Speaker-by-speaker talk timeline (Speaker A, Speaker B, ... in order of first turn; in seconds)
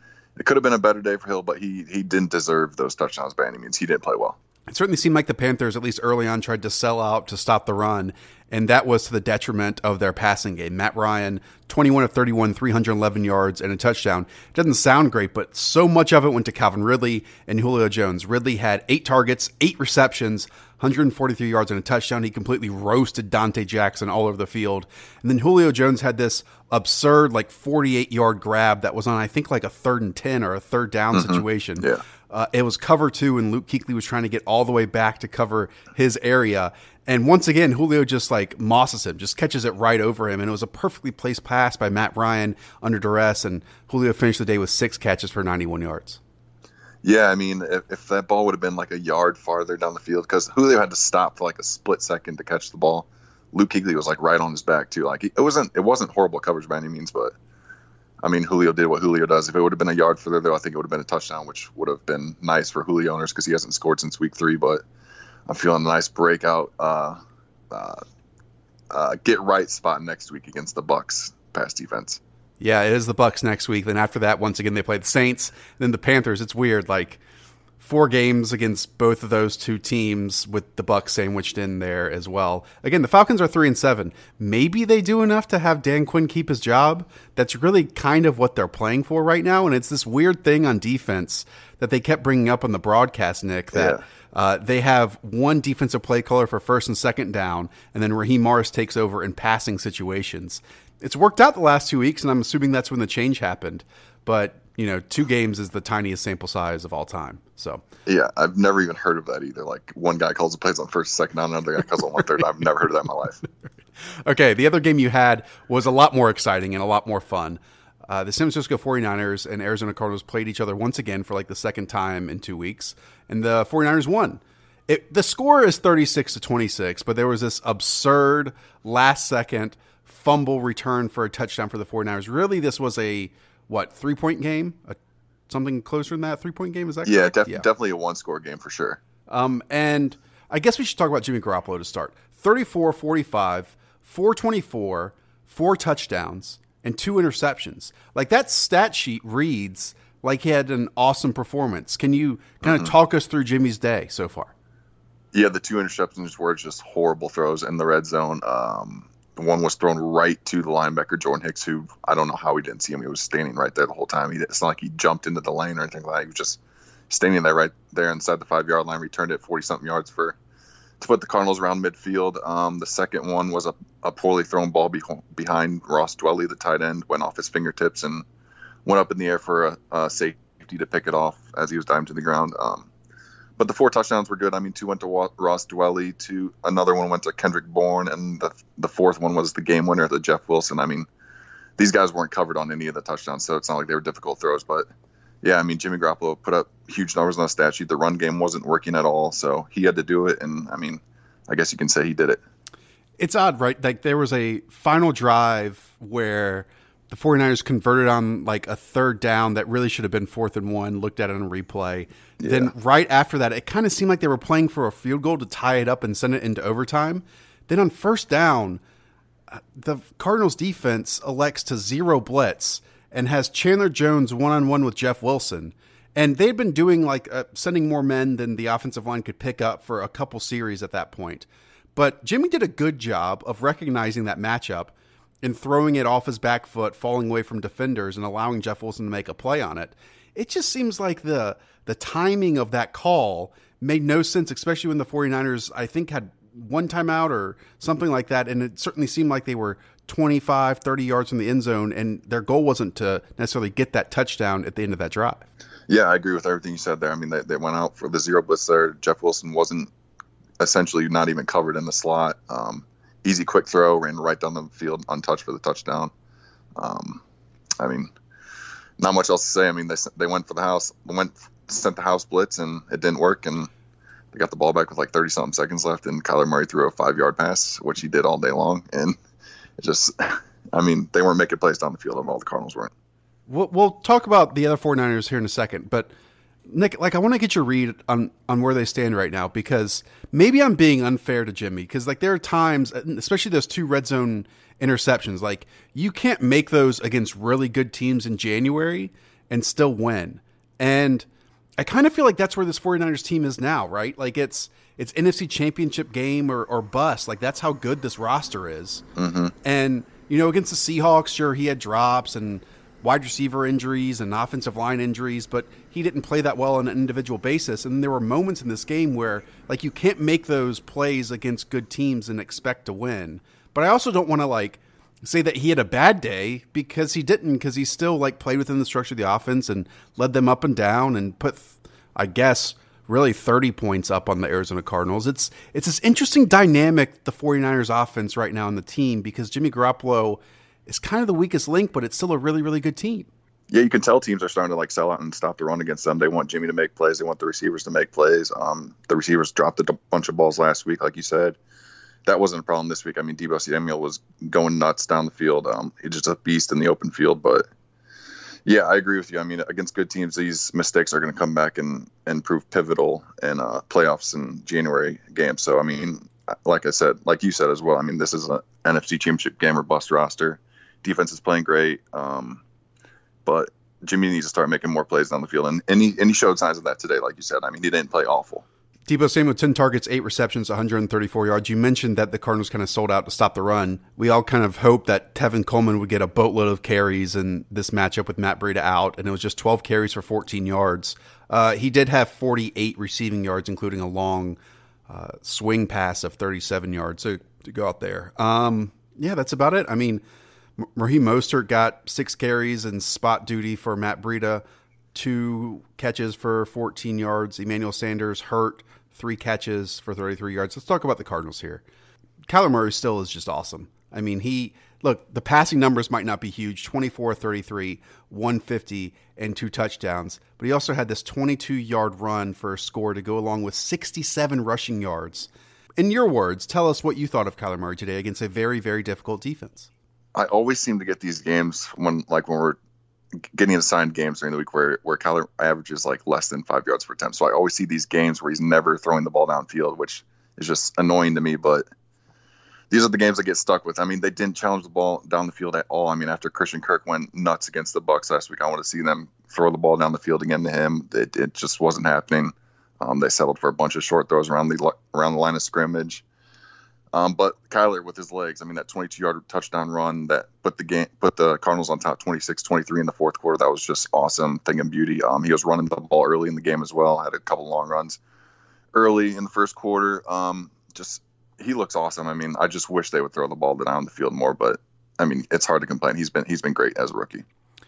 Speaker A: 0.4-4.4, 31.1-32.0, 47.0-57.3, 58.2-64.8, 65.5-67.2, 67.7-68.0, 68.9-72.2, 93.7-94.0, 108.0-113.4, 137.0-139.0, 152.6-152.9, 155.3-170.4, 171.0-178.2, 178.8-182.9, 183.6-191.1, 191.8-194.9, 195.4-202.4, 212.4-212.7, 255.9-259.9, 260.6-266.1, 266.8-267.2, 267.8-268.1, 269.0-273.7, 274.3-279.2, 279.8-282.9, 309.1-309.5, 343.7-351.6, 352.2-357.6, 358.6-372.6, 373.4-378.6, 430.3-432.8, 433.5-441.9, 442.9-456.2, 457.1-468.2, 468.9-477.4
Speaker B: 4.7-46.2, 72.6-77.2, 77.8-107.8, 114.2-135.0, 135.5-137.6, 139.3-154.5, 203.2-218.8, 219.5-255.4, 283.5-286.1, 286.6-301.3, 301.8-309.0, 309.6-343.3, 379.1-394.6, 395.1-400.2, 400.8-404.6, 405.1-411.8, 412.4-429.9